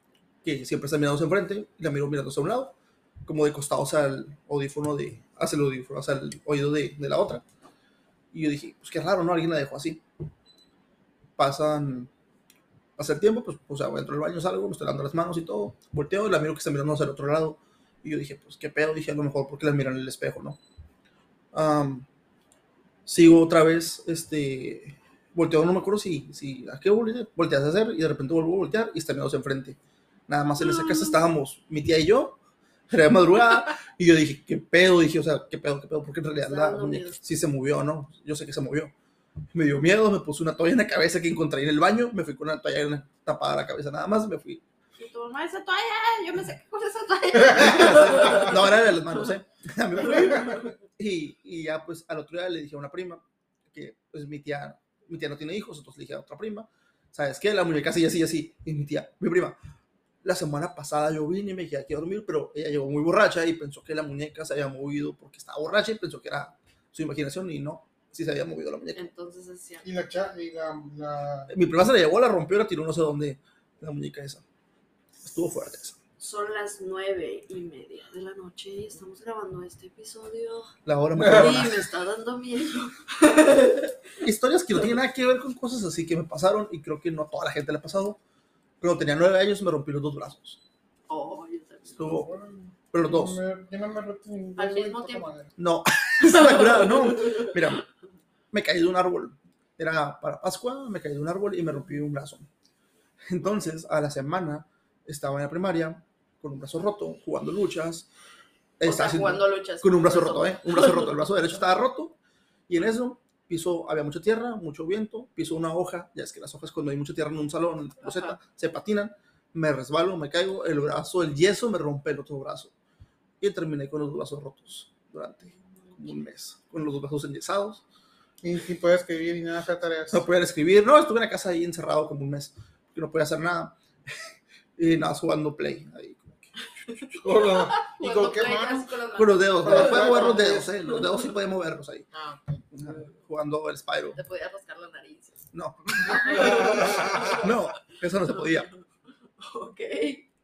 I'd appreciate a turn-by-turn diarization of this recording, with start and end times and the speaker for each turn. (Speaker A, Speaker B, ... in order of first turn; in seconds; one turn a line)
Speaker A: 0.4-2.7
Speaker A: 3.2-7.4
Speaker A: 8.3-10.0
Speaker A: 11.4-12.1
Speaker A: 13.0-20.6
Speaker A: 21.5-22.1
Speaker A: 23.1-29.8
Speaker A: 30.3-32.4
Speaker B: 30.6-31.2
Speaker A: 32.9-38.9
Speaker B: 36.5-37.2
Speaker A: 39.5-44.6
Speaker B: 45.0-48.6
Speaker A: 47.5-59.6
Speaker A: 60.2-69.1
Speaker B: 69.0-69.9
Speaker C: 69.8-71.5
Speaker A: 71.5-74.4
Speaker A: 75.2-76.0
Speaker B: 76.2-80.7
Speaker A: 80.9-81.8
Speaker C: 81.2-81.5
Speaker B: 81.2-83.9
Speaker A: 84.2-88.2
Speaker A: 88.8-90.6
Speaker B: 91.1-92.2
Speaker A: 92.0-92.3
Speaker C: 92.1-95.6
Speaker A: 92.9-93.4
Speaker B: 94.6-95.3
Speaker A: 95.6-97.8
Speaker B: 96.4-97.4
Speaker A: 98.5-102.5
Speaker A: 103.3-108.1
Speaker A: 108.8-112.2
Speaker B: 108.8-111.2
Speaker A: 112.7-122.7
Speaker B: 118.0-118.4
Speaker A: 123.4-127.8
Speaker B: 125.8-126.2
Speaker C: 128.4-130.3
Speaker A: 130.1-134.2
Speaker A: 134.8-137.8
Speaker B: 136.9-141.2
Speaker C: 137.3-139.0
Speaker A: 139.2-142.1
Speaker C: 139.6-140.7
Speaker C: 142.1-142.7
Speaker A: 142.7-144.2
Speaker B: 144.2-145.5
Speaker A: 145.5-148.7
Speaker B: 146.0-147.6
Speaker C: 146.3-147.4
Speaker B: 148.3-148.8
Speaker B: 149.4-150.3